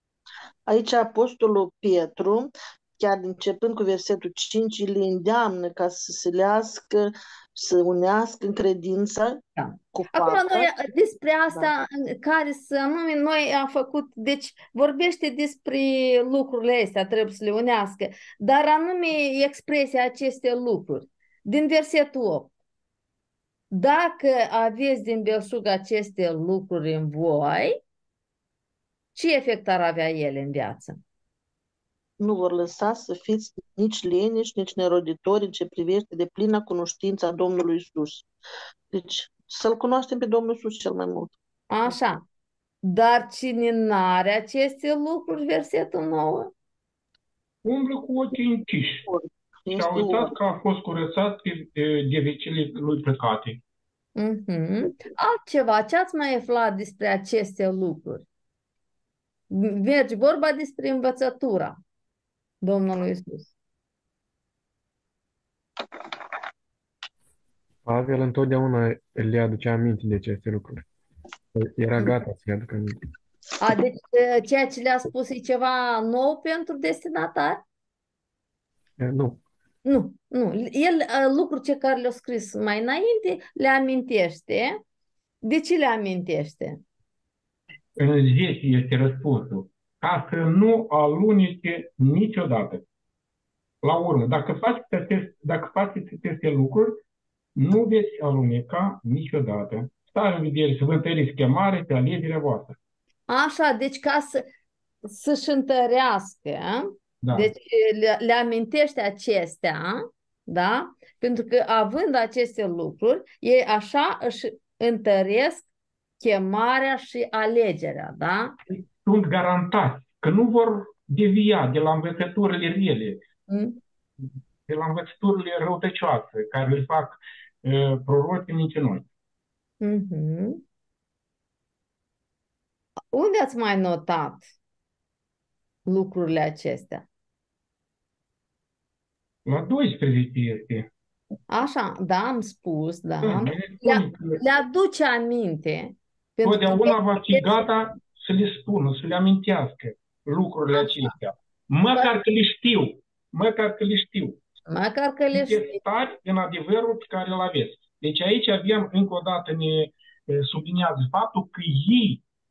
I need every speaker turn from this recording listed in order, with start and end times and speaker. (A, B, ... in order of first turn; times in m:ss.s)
0:00.7-0:09.4 A
0:09.6-0:22.5 B
0:09.9-0:10.7 A
0:23.7-0:27.8 B
0:29.1-0:31.0 B
0:32.2-0:38.2 A
0:38.9-0:41.3 A
0:41.7-0:42.2 B
0:42.8-0:46.5 B
0:47.6-0:49.0 C
0:49.0-0:50.3 A
0:49.7-0:53.6 C
0:54.2-0:58.2 B
0:59.5-1:01.8 B
1:02.6-1:03.5 B
1:07.8-1:10.8 D
1:11.6-1:13.0 D
1:13.6-1:17.6 B
1:19.0-1:19.4 D
1:19.8-1:24.8 B
1:25.4-1:26.8 B
1:28.0-1:32.8 C
1:33.8-1:37.0 C
1:37.6-1:42.8 C
1:43.3-1:44.4 B
1:45.0-1:55.7 B
1:47.2-1:47.5 C
1:56.2-1:58.6 B
1:58.7-2:03.2 C
2:03.5-2:03.8 B
2:04.7-2:09.0 C
2:09.8-2:10.6 B
2:13.1-2:14.5 B
2:15.9-2:17.0 B
2:19.4-2:20.9 C
2:21.5-2:27.6 B
2:23.2-2:24.4 C
2:26.4-2:34.4 C
2:30.7-2:31.1 B
2:34.7-2:35.8 B
2:35.3-2:42.2 C